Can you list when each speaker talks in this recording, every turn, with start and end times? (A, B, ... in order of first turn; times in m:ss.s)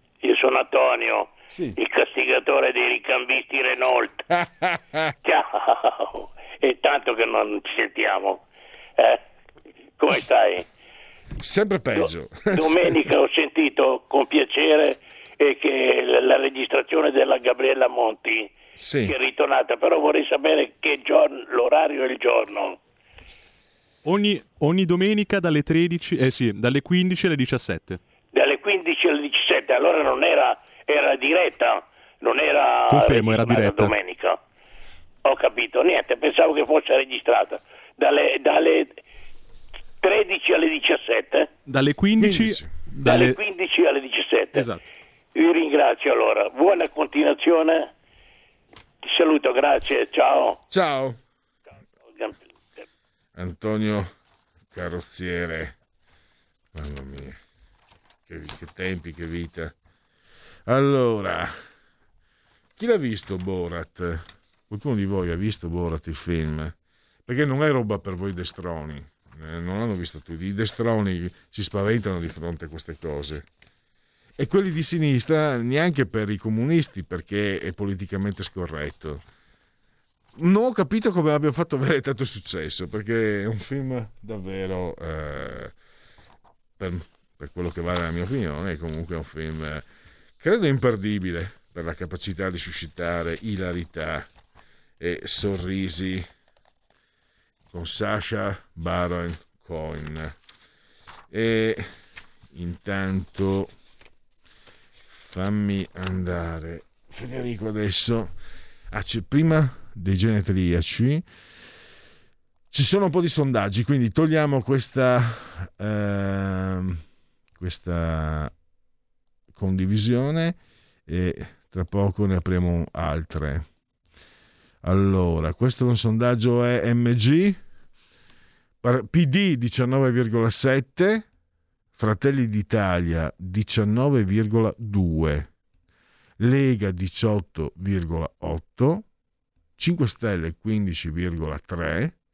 0:00.2-0:04.2 A
0:01.5-0:01.8 B
0:04.4-0:05.1 B
0:05.2-0:08.4 A
0:10.0-0:10.6 A
0:11.4-0:12.9 B
0:12.0-0:18.5 A
0:18.8-0:19.1 B
0:19.0-0:22.8 A
0:24.0-0:28.0 C
0:28.3-0:34.4 A
0:32.9-0:34.0 C
0:35.2-0:39.0 A
0:40.0-0:41.5 A
0:41.7-0:43.4 C
0:42.3-0:42.7 B
0:43.0-0:44.7 A
0:44.5-0:44.8 C
0:45.3-0:47.9 A
0:49.0-0:50.6 A
0:50.7-0:51.2 B
0:53.3-0:54.1 B
0:54.7-0:55.8 B
0:56.7-0:57.4 B
0:58.3-0:59.7 B
1:00.7-1:01.5 B
1:02.8-1:06.8 B
1:07.3-1:13.4 B
1:14.4-1:19.2 B
1:20.4-1:25.7 B
1:26.8-1:29.8 B
1:30.4-1:34.3 B
1:35.0-1:36.3 B
1:37.7-1:40.4 B
1:41.3-1:41.9 B
1:42.5-1:43.7 B
1:45.2-1:48.3 B
1:48.9-1:51.2 B
1:52.7-1:57.0 B
1:57.6-1:58.5 B
1:59.5-2:03.6 B
2:04.8-2:07.6 B
2:08.8-2:11.3 B
2:12.0-2:15.5 B
2:16.4-2:19.0 B
2:19.8-2:22.1 B